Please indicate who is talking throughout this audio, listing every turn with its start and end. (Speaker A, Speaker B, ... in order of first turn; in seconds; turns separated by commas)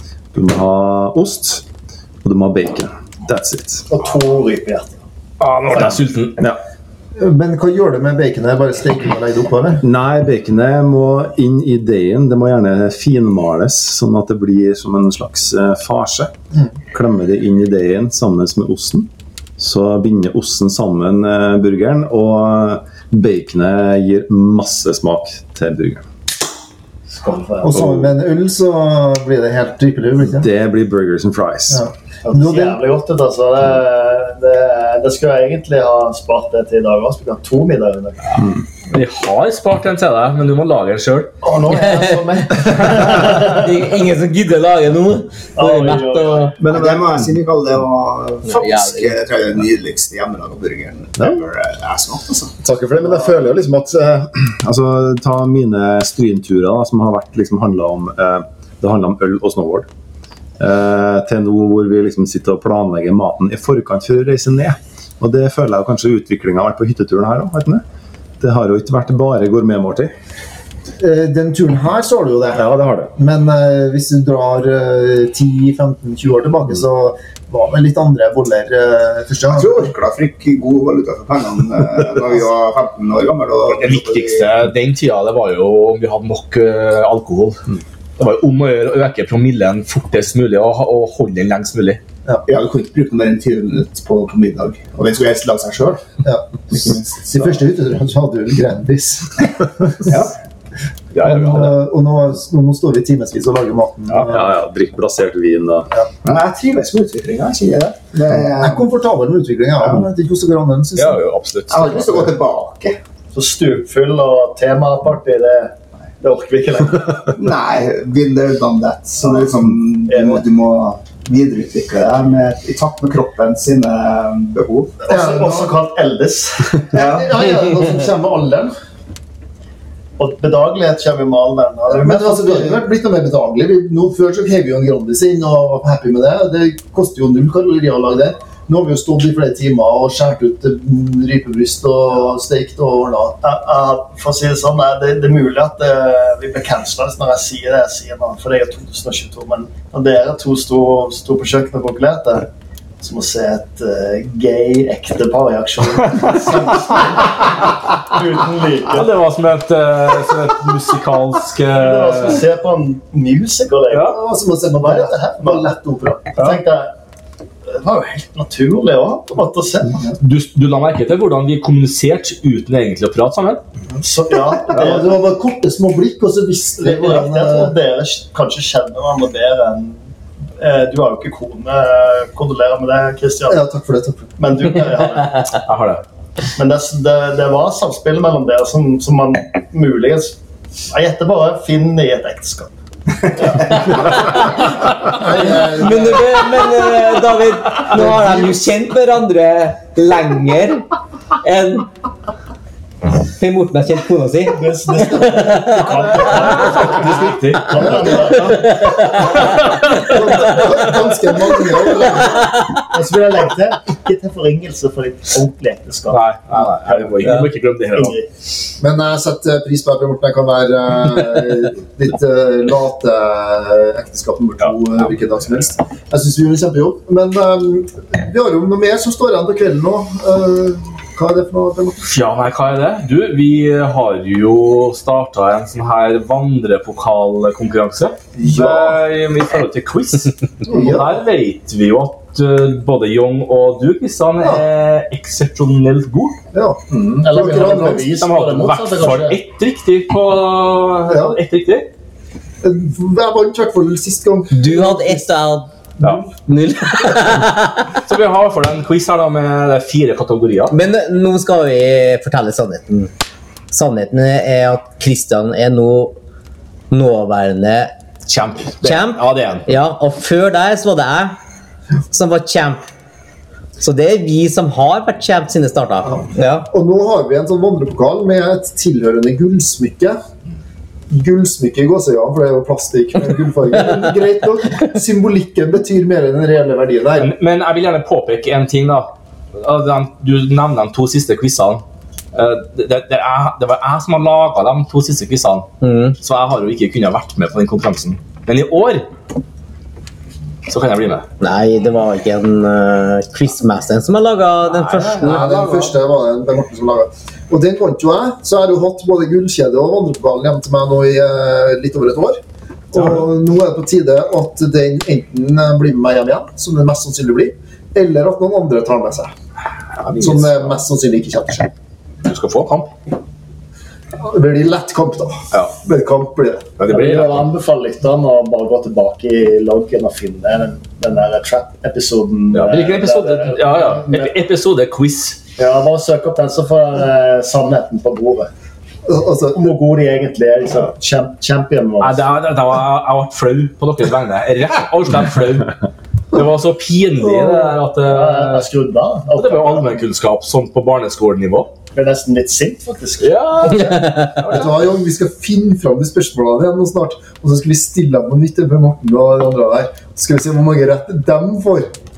Speaker A: 0.3-1.6, Speaker A: 2.2-3.9, Speaker B: 3.9-5.0, Speaker C: 5.4-6.4, Speaker D: 7.2-9.8, Speaker A: 9.8-16.3, Speaker A: 16.9-26.0, Speaker B: 27.1-27.9, Speaker D: 27.6-30.4, Speaker A: 30.3-31.8, Speaker D: 31.7-32.8, Speaker B: 32.2-38.4, Speaker C: 38.9-41.3, Speaker B: 41.4-43.9, Speaker E: 41.7-46.5, Speaker B: 45.6-46.6, Speaker A: 46.6-47.4, Speaker F: 46.7-52.6, Speaker E: 48.5-49.1, Speaker A: 52.6-59.9, Speaker A: 60.6-67.8, Speaker A: 68.4-70.1, Speaker D: 71.0-79.9, Speaker A: 72.6-73.1, Speaker F: 79.5-84.5, Speaker C: 83.7-87.6, Speaker C: 88.2-92.0, Speaker F: 92.5-96.0, Speaker D: 96.2-100.1, Speaker F: 96.8-97.4, Speaker F: 100.0-100.3, Speaker C: 101.1-101.8, Speaker D: 101.2-104.5, Speaker A: 104.2-105.9, Speaker F: 106.2-108.8, Speaker D: 108.6-111.2, Speaker C: 111.0-112.1, Speaker F: 111.7-113.0, Speaker B: 113.3-117.3, Speaker F: 117.3-125.0, Speaker B: 120.1-120.5, Speaker B: 125.0-126.9, Speaker D: 125.1-125.7, Speaker F: 126.9-127.3, Speaker D: 126.9-128.7, Speaker B: 130.2-132.8, Speaker D: 131.9-143.4, Speaker B: 143.4-152.5, Speaker B: 153.0-159.1, Speaker C: 158.9-162.4, Speaker B: 161.7-164.2, Speaker C: 163.9-164.2, Speaker D: 164.0-166.6, Speaker B: 164.8-165.7, Speaker B: 166.3-166.9, Speaker B: 167.7-170.0, Speaker C: 170.2-173.6, Speaker B: 174.0-175.1, Speaker D: 174.6-177.7, Speaker B: 176.8-180.0, Speaker B: 180.6-183.6, Speaker D: 183.5-184.7, Speaker B: 184.4-185.6, Speaker C: 185.6-186.0, Speaker B: 186.6-190.3, Speaker B: 190.9-192.7, Speaker B: 193.4-193.9, Speaker E: 194.1-200.8, Speaker D: 195.0-196.5, Speaker D: 197.9-198.6, Speaker E: 201.4-201.9, Speaker E: 203.3-206.1, Speaker B: 204.5-209.3, Speaker C: 206.1-208.2, Speaker E: 208.4-209.5, Speaker C: 209.6-210.7, Speaker D: 209.9-212.6, Speaker E: 210.1-210.5, Speaker E: 212.2-212.8, Speaker B: 212.9-217.4, Speaker C: 216.1-218.2, Speaker B: 217.9-218.2, Speaker D: 218.8-232.1, Speaker C: 232.0-246.4, Speaker D: 238.3-239.0, Speaker D: 240.7-241.2, Speaker D: 246.5-248.2, Speaker B: 247.0-249.4, Speaker C: 248.2-251.9, Speaker D: 251.1-251.4, Speaker D: 252.6-255.2, Speaker E: 254.5-255.7, Speaker E: 256.4-258.0, Speaker C: 258.0-260.7, Speaker E: 260.7-263.1, Speaker E: 263.7-266.1, Speaker E: 266.9-267.9, Speaker C: 268.3-269.7, Speaker E: 268.8-271.4, Speaker E: 272.1-272.8, Speaker E: 273.8-276.7, Speaker D: 276.1-280.2, Speaker D: 281.1-287.3, Speaker C: 287.2-291.8, Speaker C: 292.3-299.1, Speaker E: 295.8-296.1, Speaker C: 300.6-301.2, Speaker E: 301.4-305.9, Speaker C: 304.6-305.5, Speaker D: 305.2-312.4, Speaker D: 312.9-319.3, Speaker C: 320.0-320.8, Speaker D: 320.2-321.7, Speaker C: 322.2-322.9, Speaker D: 324.2-326.7, Speaker C: 326.8-327.5, Speaker B: 326.9-334.3, Speaker C: 332.5-335.4, Speaker B: 335.6-338.5, Speaker D: 339.0-339.6, Speaker B: 339.5-342.3, Speaker C: 342.0-345.8, Speaker C: 346.3-348.7, Speaker D: 347.2-347.8, Speaker B: 348.1-350.0, Speaker C: 349.3-351.7, Speaker B: 351.9-353.9, Speaker C: 353.2-354.8, Speaker D: 353.7-361.9